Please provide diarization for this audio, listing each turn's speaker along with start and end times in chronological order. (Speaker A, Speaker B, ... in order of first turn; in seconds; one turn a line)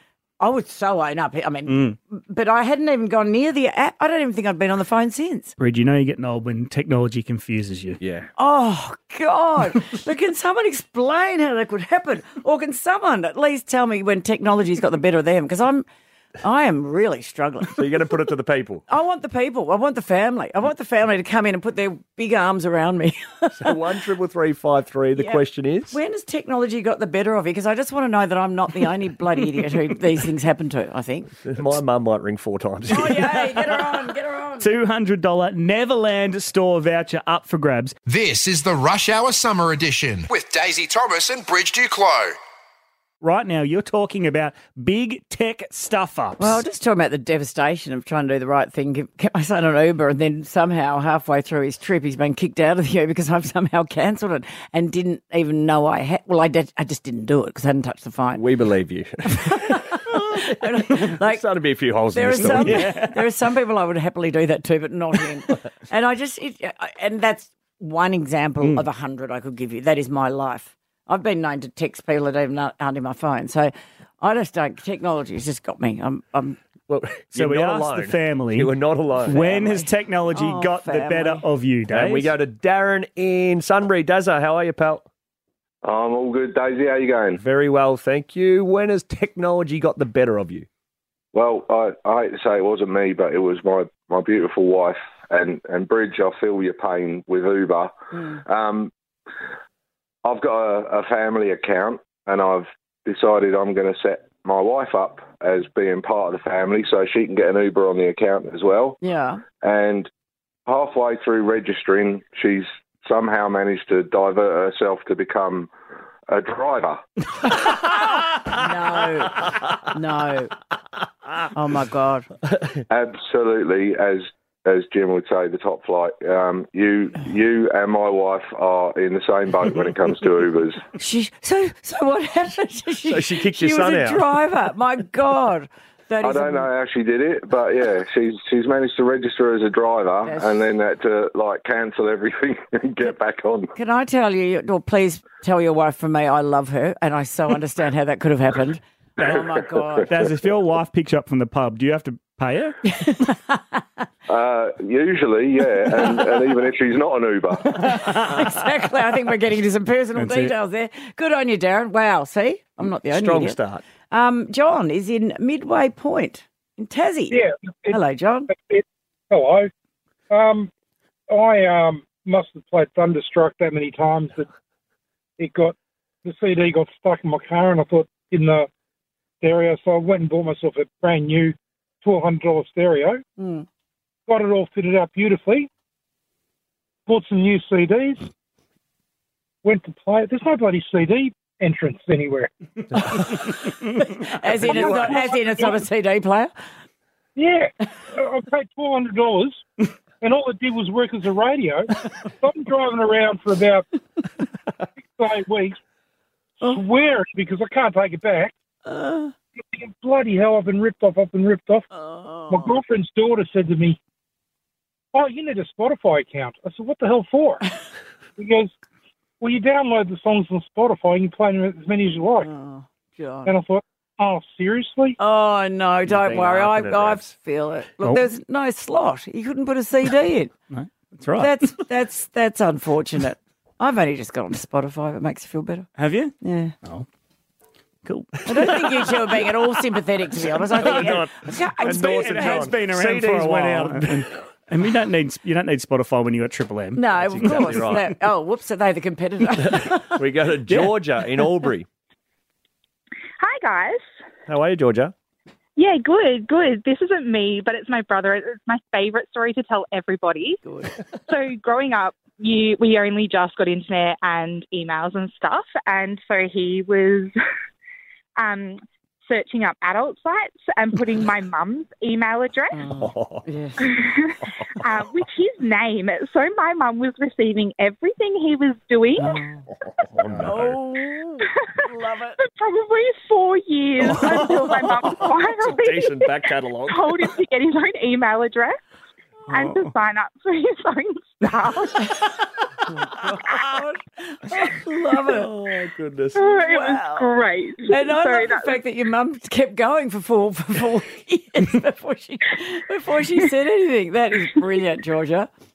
Speaker A: 0.4-5.5
Speaker B: 1.7-2.0
Speaker B: 5.6-8.0
Speaker C: 8.0-8.3
Speaker A: 8.4-15.9
Speaker A: 16.4-17.8
Speaker C: 17.8-18.8
Speaker A: 18.9-23.8
Speaker C: 23.6-26.0
Speaker A: 25.1-31.4
Speaker C: 31.4-33.4
Speaker A: 32.9-34.7
Speaker B: 34.6-37.9
Speaker D: 38.1-42.4
Speaker B: 43.2-46.6
Speaker A: 46.4-58.4
Speaker C: 58.3-60.2
Speaker A: 59.3-61.5
Speaker C: 60.9-62.9
Speaker A: 62.1-76.6
Speaker B: 62.4-63.2
Speaker C: 76.9-79.7
Speaker B: 77.3-78.7
Speaker B: 79.2-82.3
Speaker A: 79.4-81.4
Speaker C: 81.9-85.0
Speaker E: 85.8-87.4
Speaker C: 87.4-90.7
Speaker E: 91.3-97.9
Speaker A: 98.1-98.4
Speaker E: 98.5-98.9
Speaker E: 100.2-109.0
Speaker A: 109.0-109.4
Speaker E: 109.6-110.1
Speaker E: 110.7-115.7
Speaker E: 116.3-117.0
Speaker A: 117.6-120.5
Speaker A: 121.5-122.3
Speaker C: 122.5-122.8
Speaker E: 122.9-130.8
Speaker A: 131.0-136.7
Speaker C: 133.1-134.3
Speaker E: 136.2-143.7
Speaker A: 140.2-140.6
Speaker A: 143.7-150.1
Speaker B: 150.1-152.8
Speaker A: 152.8-153.8
Speaker E: 154.3-157.7
Speaker A: 157.7-163.6
Speaker B: 160.2-160.5
Speaker C: 163.1-163.8
Speaker A: 164.1-168.5
Speaker F: 167.3-169.7
Speaker F: 170.3-170.7
Speaker F: 171.3-174.5
Speaker F: 175.4-178.7
Speaker F: 179.4-183.2
Speaker A: 183.4-183.7
Speaker F: 184.3-185.7
Speaker F: 187.1-188.3
Speaker F: 189.6-192.5
Speaker A: 193.0-196.5
Speaker F: 194.6-195.8
Speaker F: 197.4-199.7
Speaker F: 200.2-203.9
Speaker F: 205.2-205.8
Speaker F: 206.6-208.6
Speaker A: 208.9-209.3
Speaker F: 209.6-211.9
Speaker A: 211.9-212.8
Speaker F: 212.5-214.0
Speaker F: 215.1-217.7
Speaker F: 218.4-218.7
Speaker F: 219.4-222.5
Speaker A: 222.4-223.5
Speaker F: 223.5-225.2
Speaker A: 225.2-230.5
Speaker C: 226.1-227.3
Speaker B: 230.7-231.7
Speaker A: 231.4-235.9
Speaker B: 236.0-237.1
Speaker A: 236.4-236.7
Speaker B: 238.1-238.8
Speaker A: 238.5-242.7
Speaker C: 240.7-244.3
Speaker B: 241.8-248.0
Speaker A: 247.0-250.2
Speaker C: 247.2-248.1
Speaker C: 249.6-251.9
Speaker G: 253.4-254.1
Speaker C: 254.5-255.1
Speaker G: 255.8-260.6
Speaker A: 260.6-260.9
Speaker G: 261.3-267.3
Speaker G: 268.4-272.8
Speaker A: 272.7-273.9
Speaker C: 273.0-273.5
Speaker G: 273.8-279.4
Speaker A: 279.2-279.6
Speaker C: 280.1-280.8
Speaker A: 280.4-282.4
Speaker G: 282.4-288.8
Speaker C: 285.4-287.3
Speaker G: 289.5-292.1
Speaker B: 289.5-289.9
Speaker A: 293.2-295.5
Speaker C: 295.2-296.6
Speaker G: 296.4-298.8
Speaker A: 296.5-305.5